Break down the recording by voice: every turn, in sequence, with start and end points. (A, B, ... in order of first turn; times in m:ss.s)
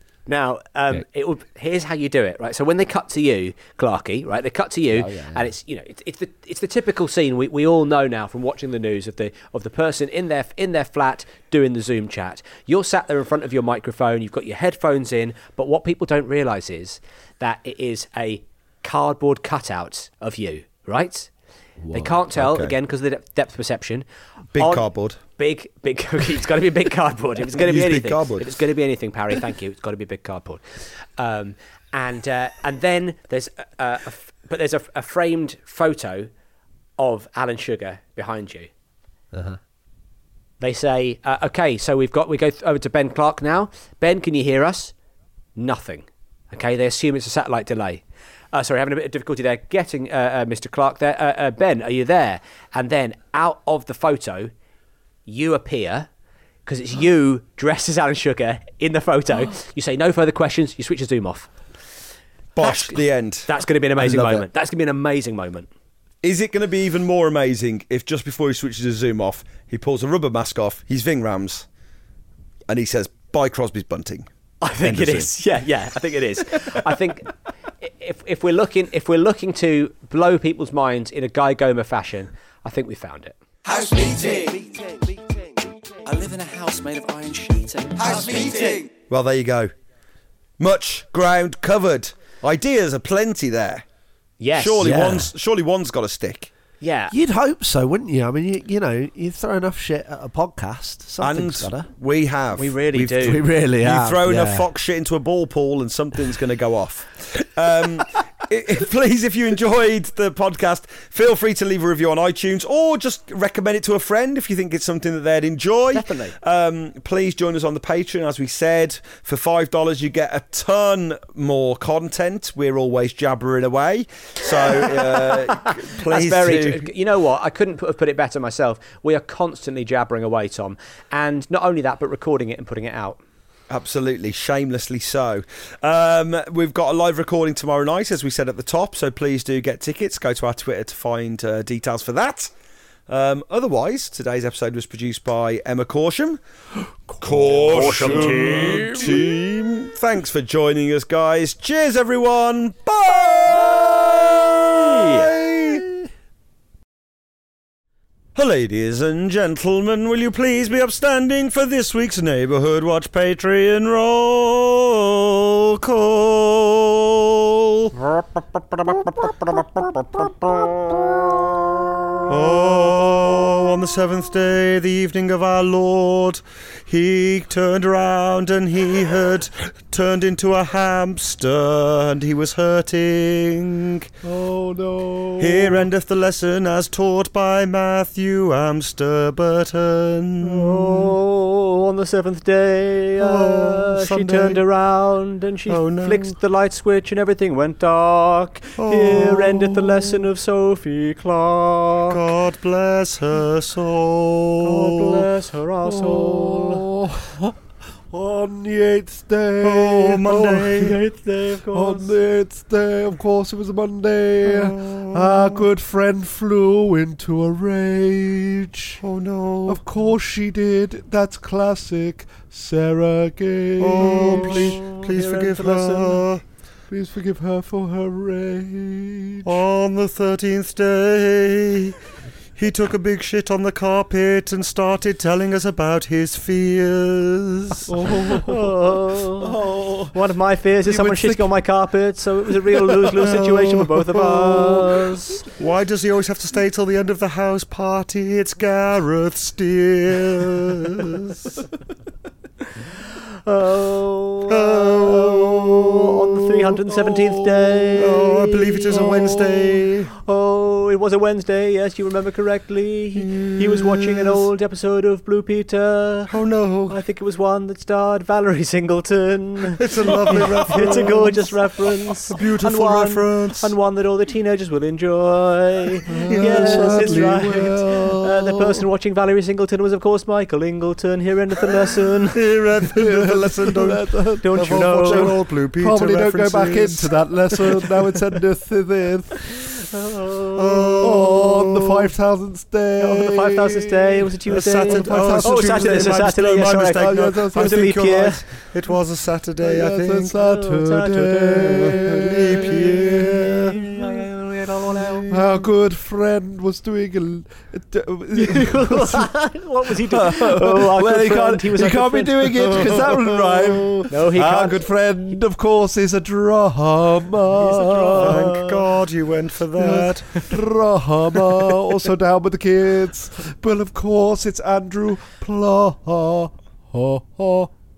0:00.3-0:21.3 A
0:04.9-0:05.5 B
0:21.8-0:22.2 B
0:21.9-0:24.0 A
0:22.3-0:22.7 C
0:24.5-0:25.2 C
0:24.6-0:30.6 A
0:27.6-0:28.5 C
0:31.2-0:36.3 A
0:37.0-0:38.7 A
0:39.3-0:39.6 B
0:40.6-0:44.9 A
0:45.6-0:54.5 A
0:55.3-0:56.1 A
0:56.6-1:01.5 A
1:02.6-1:03.5 C
1:02.6-1:05.7 A
1:04.0-1:04.4 B
1:06.2-1:11.7 C
1:12.7-1:14.3 C
1:14.6-1:23.4 A
1:14.8-1:15.3 C
1:23.7-1:24.5 D
1:26.0-1:28.6 D
1:28.0-1:29.7 C
1:30.6-1:33.8 C
1:34.4-1:35.3 A
1:34.5-1:36.5 C
1:36.8-1:37.1 A
1:37.1-1:41.9 B
1:41.2-2:06.9 C
1:42.6-1:43.4 A
1:43.2-1:44.7 B
1:55.9-1:56.3 A
2:04.8-2:13.2 A
2:13.7-2:22.5 C
2:23.1-2:26.4 C
2:27.2-2:35.8 C
2:27.6-2:29.2 B
2:27.7-2:28.8 A
2:35.0-2:35.2 A
2:38.3-2:51.4 C
2:52.3-3:04.1 C
3:04.2-3:05.8 B
3:05.4-3:11.2 C
3:10.4-3:22.2 A
3:13.2-3:14.6 C
3:15.7-3:16.4 C
3:18.8-3:20.2 C
3:22.1-3:25.3 C
3:24.6-3:26.9 A
3:25.8-3:27.5 B
3:28.1-3:30.3 B
3:29.6-3:30.9 C
3:30.2-3:32.1 A
3:31.7-3:39.0 B
3:34.4-3:35.7 C
3:39.0-3:39.8 C
3:39.7-3:44.8 B
3:43.8-3:46.4 C
3:44.0-3:46.2 A
3:46.9-3:49.6 B
3:49.4-3:52.0 C
3:52.6-3:57.9 C
3:57.9-3:58.8 B
3:58.3-3:59.5 A
3:59.4-4:00.1 B
4:00.1-4:05.4 A
4:00.8-4:01.6 B
4:02.7-4:03.2 B
4:03.2-4:04.6 C
4:04.3-4:04.8 B
4:05.6-4:11.6 C
4:13.3-4:26.4 A
4:14.5-4:16.3 C
4:17.0-4:18.0 B
4:18.0-4:20.1 C
4:23.2-4:24.4 C
4:26.3-4:27.0 C
4:26.9-4:42.4 A
4:29.8-4:31.5 C
4:32.2-4:33.7 C
4:36.1-4:37.1 C
4:36.1-4:38.8 B
4:42.3-4:47.9 C
4:42.9-4:49.8 B
4:44.4-4:45.3 A
4:49.8-4:51.0 A
4:50.6-4:52.1 C
4:51.0-4:54.3 B
4:53.0-4:58.4 A
4:54.5-5:00.4 C
4:54.8-4:56.4 B
4:56.9-4:57.9 B
4:59.6-5:03.5 B
5:00.4-5:05.3 A
5:01.5-5:05.6 C
5:05.3-5:09.3 B
5:08.3-5:13.1 A
5:10.1-5:18.4 B
5:13.1-5:13.6 C
5:14.1-5:14.8 A
5:17.5-5:18.8 A
5:18.2-5:20.3 C
5:19.8-5:27.7 B